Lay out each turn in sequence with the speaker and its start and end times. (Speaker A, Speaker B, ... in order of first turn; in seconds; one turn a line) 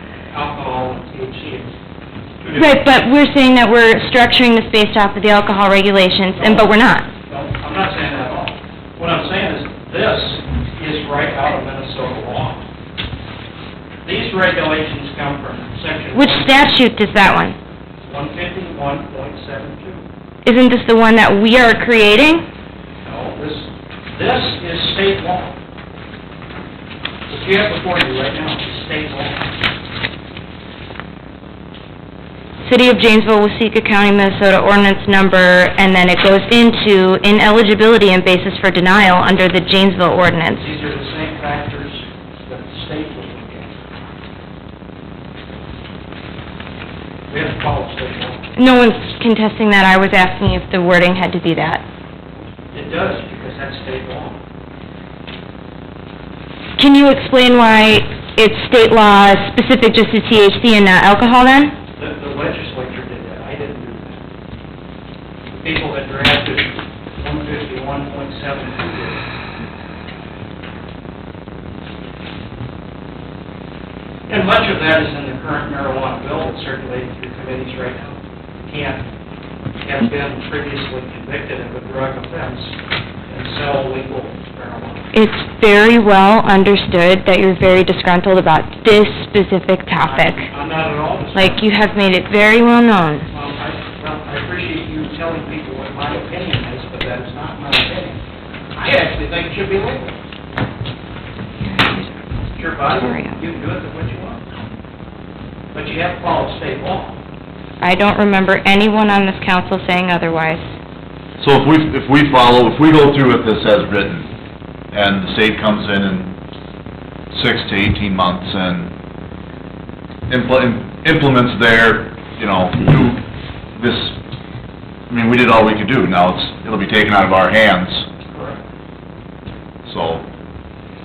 Speaker A: 0.3-1.7
Speaker B: 2.5-7.1
Speaker A: 6.4-6.7
Speaker A: 7.3-12.7
Speaker A: 14.0-16.4
Speaker B: 16.1-17.6
Speaker A: 18.0-20.0
Speaker B: 20.4-22.4
Speaker A: 23.0-25.5
Speaker A: 27.3-29.5
Speaker B: 32.6-40.7
Speaker A: 40.5-43.8
Speaker A: 47.3-48.4
Speaker B: 48.5-51.8
Speaker A: 52.7-54.4
Speaker B: 56.8-61.8
Speaker A: 62.0-64.2
Speaker A: 65.6-69.2
Speaker A: 74.3-79.1
Speaker A: 79.8-82.7
Speaker A: 83.3-85.1
Speaker B: 85.1-90.5
Speaker A: 90.0-91.7
Speaker B: 91.3-93.3
Speaker A: 93.3-98.2
Speaker A: 98.8-100.1
Speaker B: 101.6-102.2
Speaker A: 102.5-104.4
Speaker B: 102.9-103.4
Speaker A: 105.7-107.2
Speaker B: 107.8-110.7
Speaker C: 111.4-114.3
Speaker C: 114.9-116.3
Speaker C: 117.3-118.9
Speaker C: 120.3-123.2
Speaker C: 123.8-124.2
Speaker C: 125.1-128.1
Speaker A: 128.3-128.6
Speaker C: 129.9-130.2